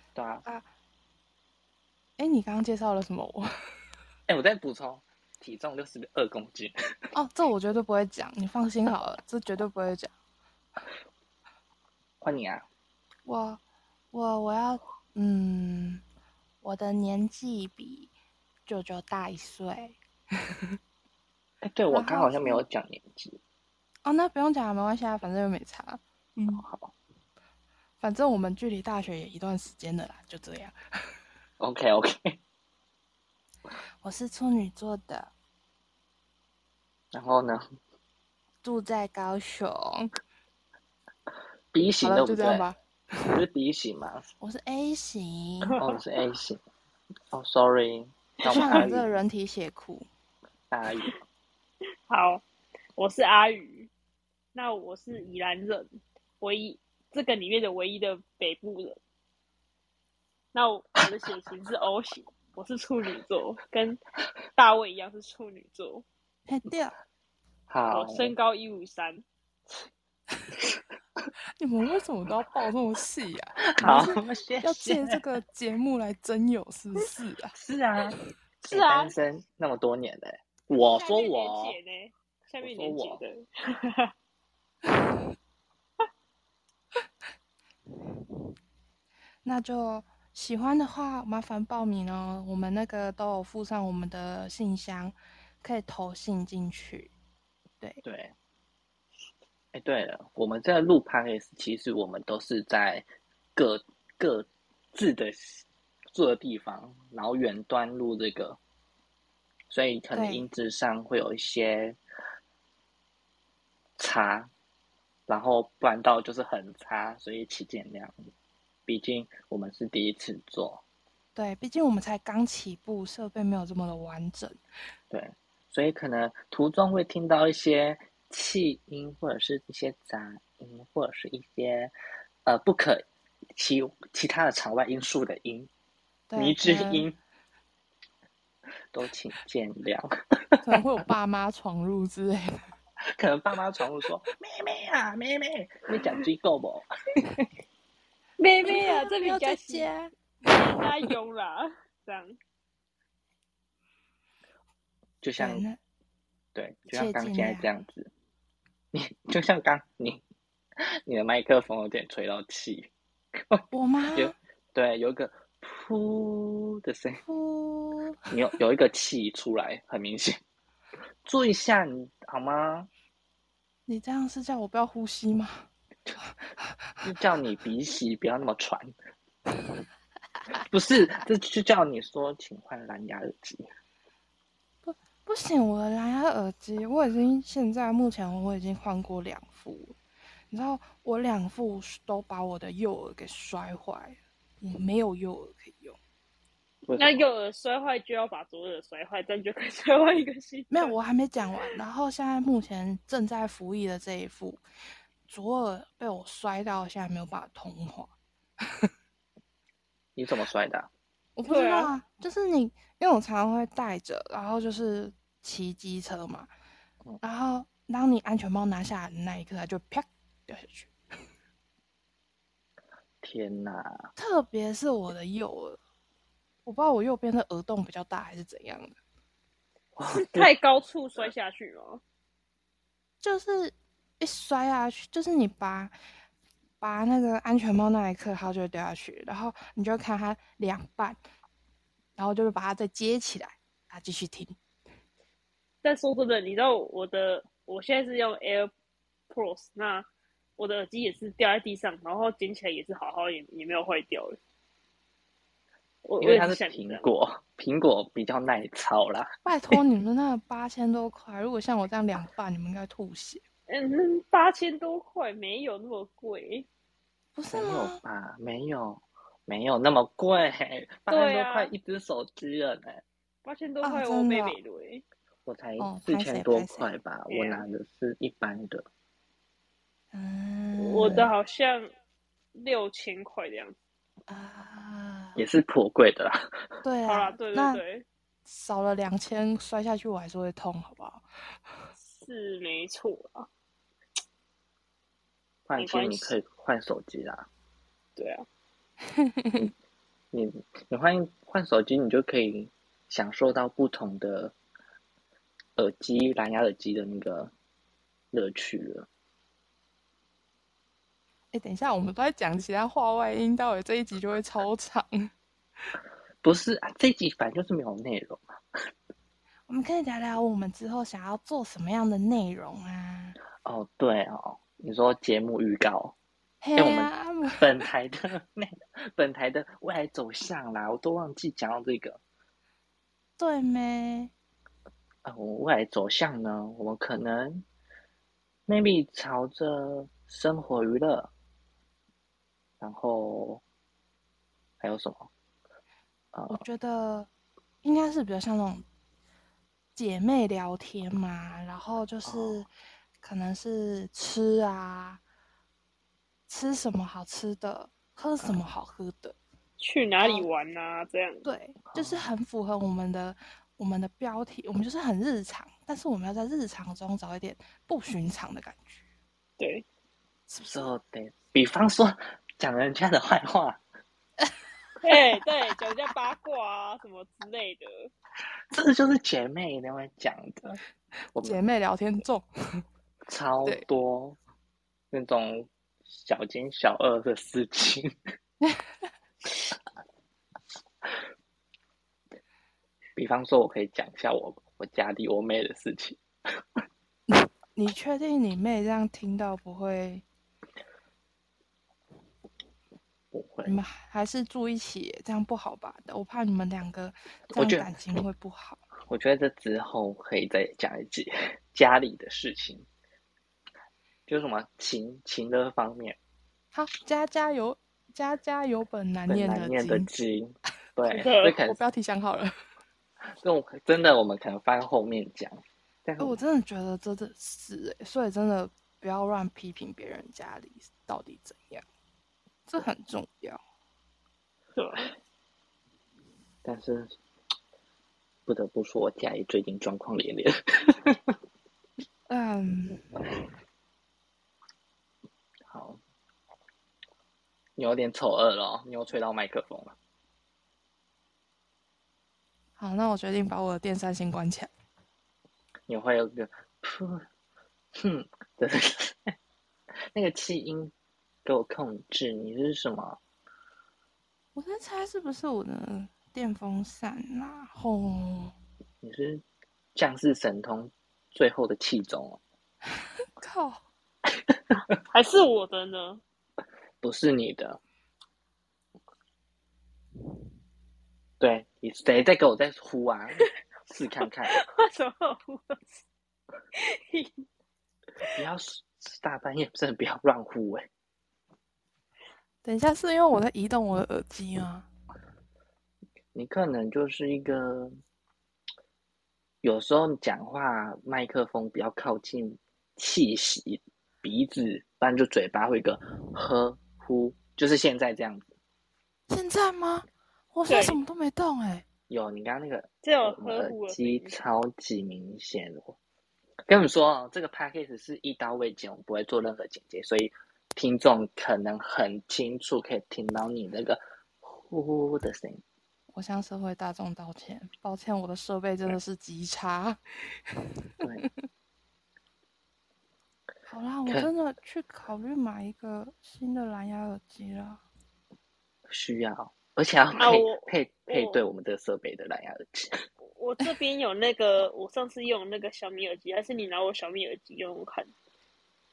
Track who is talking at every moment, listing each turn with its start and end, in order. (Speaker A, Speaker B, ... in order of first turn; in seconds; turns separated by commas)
Speaker A: 0.1-0.5, Speaker B: 2.2-3.5, Speaker A: 4.3-6.8, Speaker B: 7.1-10.1, Speaker A: 12.2-12.7, Speaker B: 13.2-16.0, Speaker B: 16.6-18.1, Speaker B: 18.7-20.0, Speaker A: 21.6-23.4, Speaker B: 21.9-22.6, Speaker B: 24.1-26.7, Speaker A: 26.6-26.9, Speaker B: 28.0-30.8, Speaker A: 31.6-32.4, Speaker B: 34.0-35.3, Speaker A: 37.1-37.6, Speaker B: 38.6-40.1, Speaker A: 41.7-42.7, Speaker B: 42.0-43.3, Speaker A: 43.3-44.2, Speaker B: 44.4-45.8, Speaker A: 45.8-46.6, Speaker A: 47.3-49.2, Speaker B: 48.4-50.1, Speaker C: 48.5-48.9, Speaker A: 50.7-51.2, Speaker C: 52.1-52.4, Speaker C: 53.0-53.9, Speaker C: 54.5-59.0, Speaker C: 60.5-64.0, Speaker C: 64.5-66.0, Speaker B: 66.5-67.0, Speaker A: 67.7-68.3, Speaker C: 67.9-69.2, Speaker B: 71.6-77.5, Speaker A: 73.8-75.2, Speaker A: 77.5-78.2, Speaker C: 78.6-79.2, Speaker A: 78.7-81.8, Speaker C: 80.8-84.1, Speaker A: 82.6-83.2, Speaker B: 89.4-97.1, Speaker A: 98.0-98.3, Speaker A: 99.7-108.6, Speaker A: 109.7-112.0, Speaker B: 110.1-110.5, Speaker A: 114.0-114.5, Speaker A: 115.3-118.2, Speaker A: 118.9-120.8, Speaker B: 121.3-124.6, Speaker A: 125.1-131.9, Speaker A: 132.5-135.7, Speaker B: 136.3-137.1, Speaker A: 136.4-137.2, Speaker A: 138.9-140.7, Speaker B: 140.6-142.7, Speaker A: 143.1-147.4, Speaker C: 148.4-149.9, Speaker B: 148.7-150.8, Speaker C: 150.5-152.4, Speaker A: 155.2-155.7, Speaker B: 155.4-155.8, Speaker A: 156.6-158.1, Speaker B: 156.9-157.7, Speaker A: 158.9-160.2, Speaker A: 160.8-162.9, Speaker A: 163.5-167.2, Speaker B: 163.7-164.3, Speaker B: 167.2-168.2, Speaker A: 168.3-170.4, Speaker A: 171.2-172.9, Speaker B: 173.9-175.7, Speaker B: 176.6-177.1, Speaker A: 177.0-178.9, Speaker A: 180.5-183.7, Speaker B: 184.8-190.0, Speaker B: 190.5-196.0, Speaker A: 196.9-197.2, Speaker C: 196.9-200.9, Speaker B: 200.7-204.6, Speaker B: 205.3-208.2, Speaker A: 210.2-210.9, Speaker B: 211.4-216.5, Speaker C: 211.4-211.9, Speaker B: 217.2-220.9, Speaker A: 223.2-224.1, Speaker B: 224.2-225.8, Speaker B: 226.7-228.9, Speaker A: 230.0-230.5, Speaker C: 230.1-232.0, Speaker B: 233.2-235.9, Speaker B: 236.8-241.2, Speaker B: 242.2-244.6, Speaker C: 245.8-248.7, Speaker C: 249.3-250.1, Speaker C: 250.6-254.4, Speaker C: 256.1-257.1, Speaker A: 256.2-259.3, Speaker B: 259.4-263.4, Speaker C: 263.7-266.7, Speaker B: 267.4-268.0, Speaker A: 267.5-273.0, Speaker C: 271.1-271.7, Speaker C: 273.4-275.0, Speaker B: 273.8-274.6, Speaker A: 275.5-278.9, Speaker B: 275.8-276.9, Speaker C: 277.3-277.7, Speaker B: 280.1-281.3, Speaker C: 280.8-281.9, Speaker C: 282.6-283.8, Speaker B: 284.3-285.4, Speaker A: 285.4-286.5, Speaker B: 286.8-287.8, Speaker C: 287.1-288.1, Speaker B: 288.4-291.2, Speaker C: 292.0-293.5, Speaker A: 295.7-297.5, Speaker C: 295.8-296.4, Speaker C: 298.2-298.5, Speaker B: 299.2-299.7, Speaker A: 300.3-304.5, Speaker A: 305.8-307.5, Speaker A: 308.3-309.1, Speaker B: 311.5-315.3, Speaker A: 316.4-318.5, Speaker B: 319.7-323.4, Speaker A: 323.6-326.2, Speaker B: 326.6-327.7, Speaker A: 326.8-332.2, Speaker B: 333.4-334.3, Speaker A: 335.2-337.7, Speaker A: 338.7-341.3, Speaker A: 342.8-343.6, Speaker A: 344.8-345.3, Speaker A: 346.3-346.6, Speaker B: 346.5-347.3, Speaker B: 347.8-348.9, Speaker B: 350.0-352.7, Speaker A: 352.2-352.6, Speaker B: 353.2-355.2, Speaker B: 356.5-359.4, Speaker C: 359.8-361.4, Speaker B: 360.2-360.5, Speaker B: 361.4-369.0, Speaker A: 361.9-362.3, Speaker C: 369.6-369.8, Speaker B: 370.5-370.9, Speaker A: 370.6-373.8, Speaker C: 375.0-378.1, Speaker A: 378.7-380.8, Speaker A: 381.4-381.6, Speaker B: 381.4-382.8, Speaker A: 383.3-384.4, Speaker A: 385.1-388.1, Speaker A: 393.2-396.2, Speaker B: 397.3-400.2, Speaker A: 403.3-403.8, Speaker B: 403.6-408.8, Speaker A: 407.5-407.9, Speaker A: 409.1-412.9, Speaker A: 414.3-416.2, Speaker B: 416.7-420.1, Speaker A: 419.3-421.8, Speaker C: 421.1-421.6, Speaker B: 421.6-422.5, Speaker A: 423.4-426.4, Speaker B: 426.2-431.9, Speaker B: 432.7-433.6, Speaker C: 434.8-435.1, Speaker A: 436.6-437.1, Speaker A: 438.5-441.3, Speaker B: 442.3-443.2, Speaker A: 445.7-446.0, Speaker A: 447.8-450.0, Speaker B: 452.8-454.7, Speaker A: 455.9-457.3, Speaker A: 458.0-459.4, Speaker A: 460.1-460.9, Speaker A: 461.4-463.2, Speaker B: 464.6-468.6, Speaker A: 469.0-469.4, Speaker A: 470.0-472.4, Speaker B: 473.4-473.8, Speaker C: 475.1-476.2, Speaker A: 477.0-477.8, Speaker A: 481.4-484.6, Speaker C: 484.5-486.0, Speaker C: 486.8-487.4, Speaker A: 488.3-490.9, Speaker B: 492.6-494.9, Speaker A: 496.3-497.9, Speaker A: 499.6-508.5, Speaker B: 509.3-511.9, Speaker C: 510.7-511.0, Speaker A: 512.1-516.0, Speaker C: 513.0-514.3, Speaker A: 516.7-525.6, Speaker B: 526.1-530.0, Speaker B: 533.7-537.8, Speaker A: 538.9-543.0, Speaker C: 540.1-541.4, Speaker C: 543.2-548.1